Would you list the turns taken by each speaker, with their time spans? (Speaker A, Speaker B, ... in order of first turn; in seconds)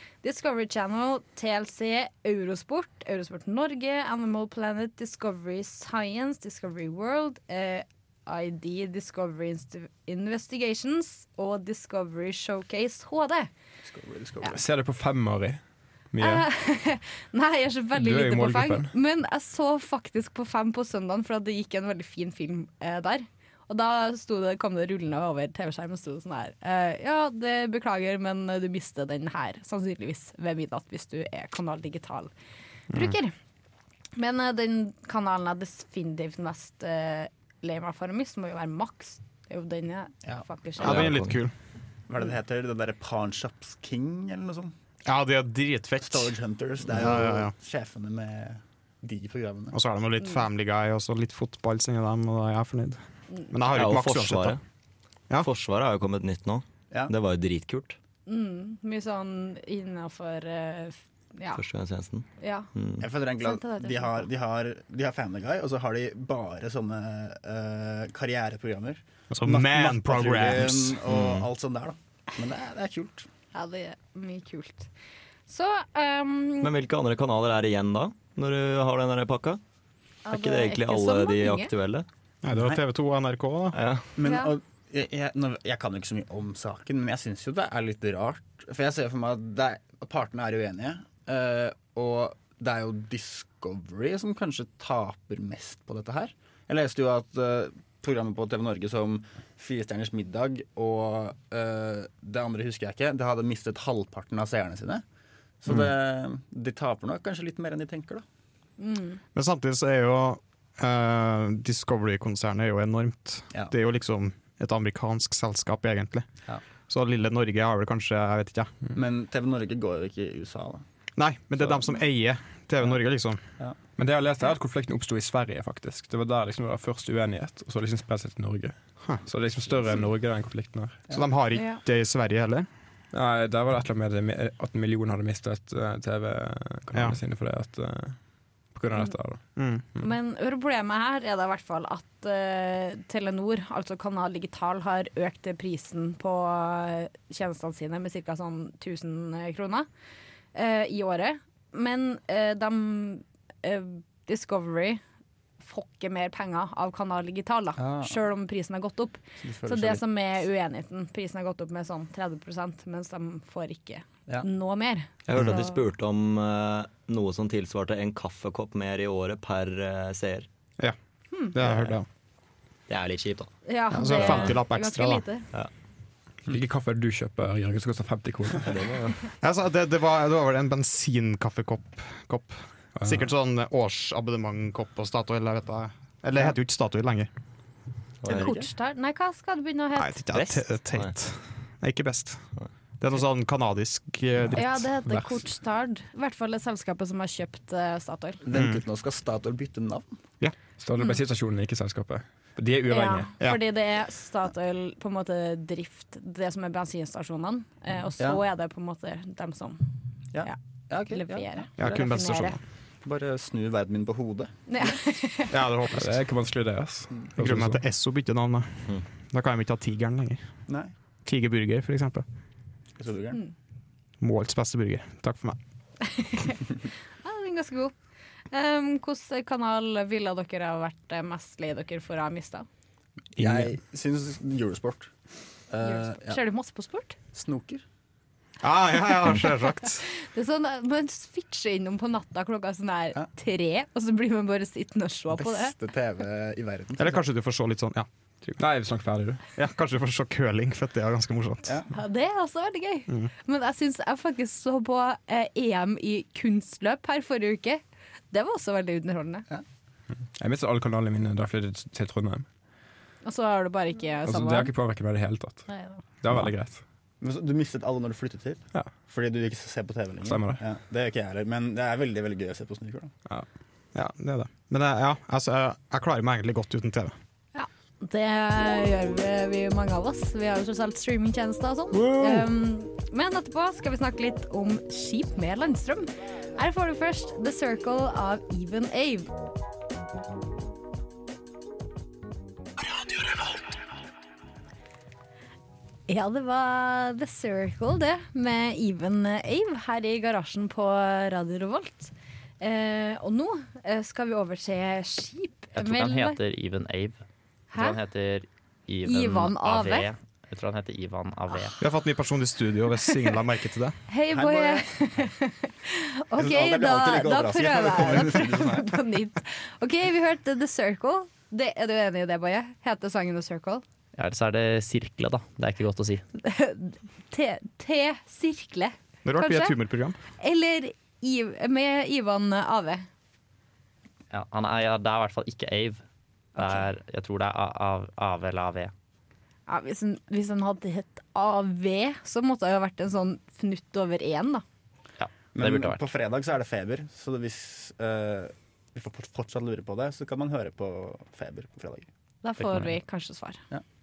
Speaker A: 0.2-13.5, 16.2-32.3, 32.9-33.3, 34.1-41.1, 58.2-61.6, 62.4-62.7, 63.4-64.3, 73.5-74.9, 75.5-76.7, 80.2-81.7, 84.2-84.5, 108.8-109.2, 131.5-131.8, 140.0-149.9, 150.5-155.0, 155.6-165.8, 173.6-175.5, 188.3-190.3, 194.5-198.4, 202.9-209.8, 211.1-212.6, 214.7-215.5, 226.0-226.6, 227.2-227.9, 228.5-232.7, 235.8-237.2, 240.0-245.7, 251.9-259.4, 263.2-264.7, 265.7-266.0, 277.5-289.3, 296.1-306.4, 307.7-308.0, 309.1-310.1, 314.1-323.8, 326.4-329.8, 330.4-333.1, 336.6-336.8, 339.7-344.6, 352.4-353.6
Speaker B: 13.8-14.7, 42.1-44.7, 46.0-49.8, 63.0-73.3, 82.5-82.8, 84.2-105.0, 105.6-108.2, 118.9-120.8, 157.8-158.2, 159.4-160.0, 188.2-188.7, 198.4-200.1, 210.3-212.0, 213.0-215.0, 220.7-220.9, 223.0-223.4, 233.4-235.1, 235.7-236.4, 237.3-237.8, 245.3-247.2, 267.2-273.1, 314.3-314.9, 316.4-319.0, 345.5-352.1
Speaker C: 14.5-15.6, 16.1-16.5, 17.9-18.9, 124.0-131.0, 133.1-138.2, 138.7-139.4, 176.4-179.1, 183.0-183.3, 200.8-203.3, 215.9-217.8, 248.6-249.4, 260.4-262.5, 264.2-265.6, 266.2-266.8, 270.2-270.6
Speaker D: 40.8-41.5, 45.1-46.3, 46.9-47.5, 49.7-54.6, 69.3-71.0, 82.4-83.8, 109.3-116.3, 116.9-118.7, 121.2-123.4, 131.1-132.7, 139.6-139.8, 171.5-172.1, 173.9-175.2, 179.4-187.3, 189.9-192.4, 193.0-195.2, 198.5-198.8, 211.8-212.6, 215.5-216.2, 217.4-220.4, 221.2-222.2, 224.2-225.6, 238.6-240.1, 247.0-248.6, 249.6-251.8, 273.9-277.1, 311.8-314.0, 329.2-330.2
Speaker E: 40.8-41.4, 53.7-54.6, 55.4-58.0, 61.5-63.1, 71.1-71.5, 76.6-79.6, 80.3-82.1, 83.7-84.1, 165.3-170.5, 171.6-171.9, 172.9-173.5, 178.7-179.1, 188.2-188.6, 190.3-191.1
Speaker F: 305.8-307.2, 307.7-311.8, 324.1-326.2, 334.3-336.0, 336.6-338.9, 345.2-346.0